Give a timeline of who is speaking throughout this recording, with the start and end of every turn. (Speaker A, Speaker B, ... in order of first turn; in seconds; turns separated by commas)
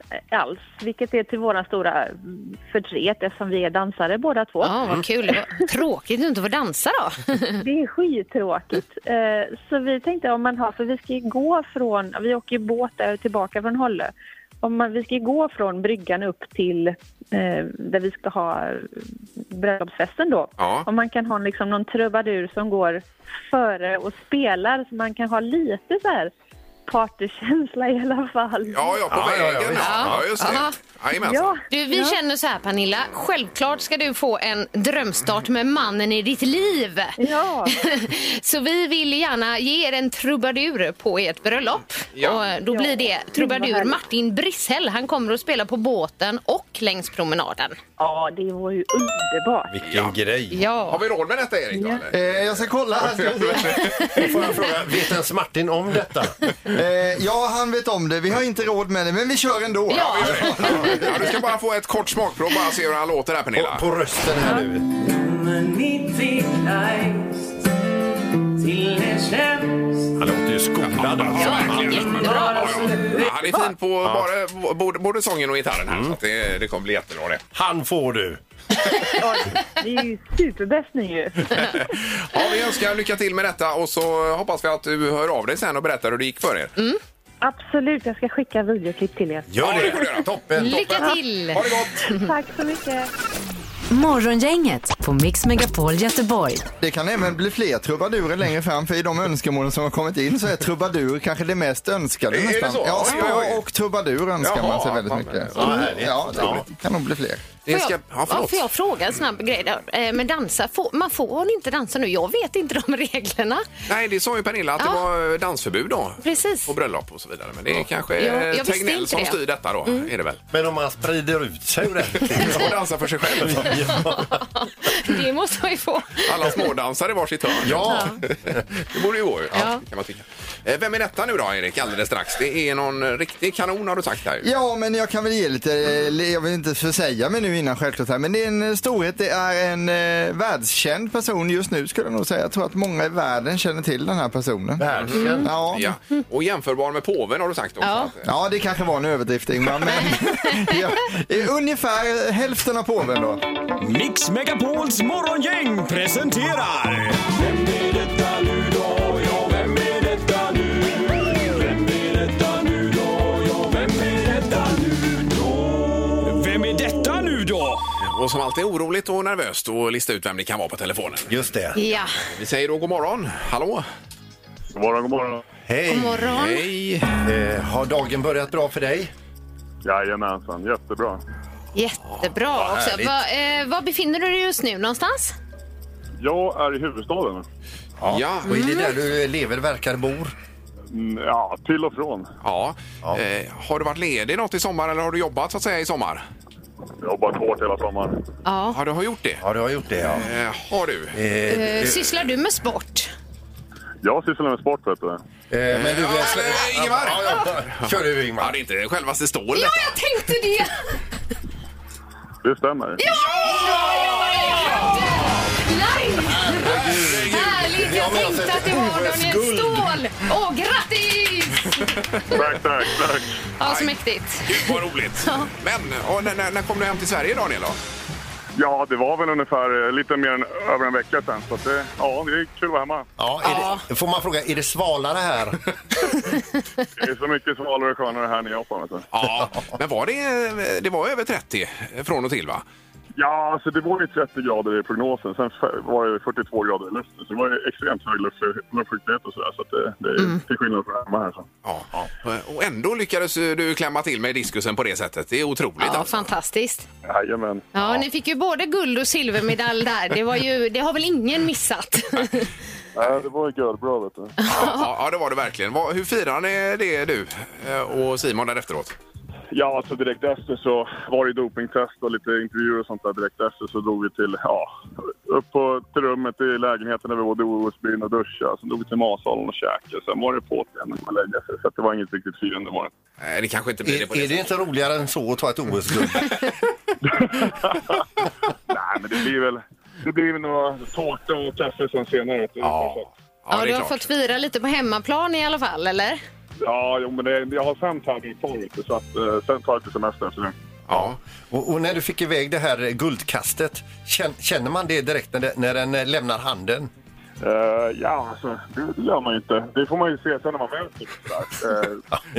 Speaker A: 0.3-4.8, Speaker B: 4.6-7.6, Speaker A: 7.6-26.3, Speaker C: 20.6-20.9, Speaker A: 26.9-29.0, Speaker C: 28.7-31.6, Speaker D: 29.1-30.6, Speaker B: 29.8-30.8, Speaker A: 31.2-32.2, Speaker B: 31.7-47.8, Speaker A: 37.2-37.8, Speaker C: 42.1-42.4, Speaker A: 42.3-43.9, Speaker A: 48.0-49.8, Speaker D: 49.7-50.6, Speaker C: 49.8-50.1, Speaker B: 50.5-51.0, Speaker C: 50.9-52.4, Speaker A: 51.7-52.0, Speaker E: 52.1-53.9, Speaker B: 53.8-54.2, Speaker D: 54.1-56.4, Speaker E: 56.7-61.0, Speaker C: 59.9-63.9, Speaker B: 59.9-61.1, Speaker D: 63.5-64.8, Speaker D: 70.2-72.4, Speaker C: 71.0-77.4, Speaker B: 71.3-72.9, Speaker D: 75.9-76.2, Speaker D: 77.5-78.4, Speaker A: 79.2-81.7, Speaker C: 82.2-86.7, Speaker A: 87.4-90.1, Speaker D: 89.5-90.8, Speaker C: 89.6-92.0, Speaker B: 90.6-92.2, Speaker A: 92.1-93.1, Speaker F: 93.9-96.7, Speaker E: 96.8-107.4, Speaker C: 102.3-103.6, Speaker C: 104.4-106.5, Speaker D: 105.5-106.6, Speaker C: 107.7-108.7, Speaker B: 107.7-113.7, Speaker C: 113.9-120.4, Speaker B: 116.2-116.7, Speaker B: 118.2-120.1, Speaker D: 120.5-124.4, Speaker C: 122.3-123.9, Speaker B: 123.8-126.6, Speaker C: 126.2-128.3, Speaker D: 127.6-128.6, Speaker B: 127.9-128.2, Speaker C: 128.9-134.5, Speaker B: 129.5-129.8, Speaker E: 134.4-145.9, Speaker D: 144.8-145.5, Speaker C: 144.9-148.3, Speaker B: 145.2-145.5, Speaker B: 147.8-148.1, Speaker E: 148.2-153.4, Speaker B: 149.9-150.8, Speaker G: 153.8-167.8, Speaker C: 168.0-171.4, Speaker D: 171.3-171.8, Speaker B: 171.7-172.2, Speaker C: 172.2-173.8, Speaker H: 174.7-175.4, Speaker D: 175.6-176.3, Speaker B: 175.9-176.7, Speaker C: 176.3-177.1, Speaker D: 177.2-179.1, Speaker H: 179.8-181.2, Speaker B: 181.7-185.3, Speaker D: 182.5-183.2, Speaker H: 186.2-187.4, Speaker D: 188.0-190.3, Speaker C: 188.1-188.5, Speaker B: 188.5-188.9, Speaker H: 190.9-192.3, Speaker C: 192.4-196.2, Speaker H: 197.0-198.2, Speaker B: 198.4-198.8, Speaker C: 198.7-199.4, Speaker D: 199.4-200.3, Speaker C: 200.1-201.2, Speaker D: 201.1-202.0, Speaker B: 201.5-203.1, Speaker H: 204.0-205.2, Speaker D: 205.5-208.5, Speaker C: 205.7-210.0, Speaker B: 209.5-211.0, Speaker H: 212.4-213.0, Speaker B: 213.0-216.8, Speaker C: 213.1-215.3, Speaker D: 216.5-220.0, Speaker C: 216.5-217.6, Speaker B: 217.3-222.4, Speaker H: 222.3-223.3, Speaker B: 223.6-225.5, Speaker C: 223.6-223.9, Speaker C: 224.4-227.8, Speaker H: 228.6-233.1, Speaker D: 233.2-235.6, Speaker B: 233.4-233.8, Speaker H: 237.0-239.1, Speaker C: 239.1-242.6, Speaker H: 243.2-251.5, Speaker C: 251.6-256.3, Speaker B: 255.8-256.9, Speaker H: 257.0-257.7, Speaker B: 257.7-262.5, Speaker C: 257.8-258.0, Speaker H: 262.9-264.4, Speaker B: 264.4-264.9, Speaker C: 264.5-268.9, Speaker H: 269.5-282.9, Speaker C: 283.2-284.5, Speaker D: 283.9-286.5, Speaker H: 287.2-287.7, Speaker H: 288.7-293.1, Speaker C: 292.6-294.1, Speaker B: 293.5-296.2, Speaker H: 296.6-300.5, Speaker C: 300.9-301.2, Speaker D: 300.9-306.9, Speaker H: 307.4-312.0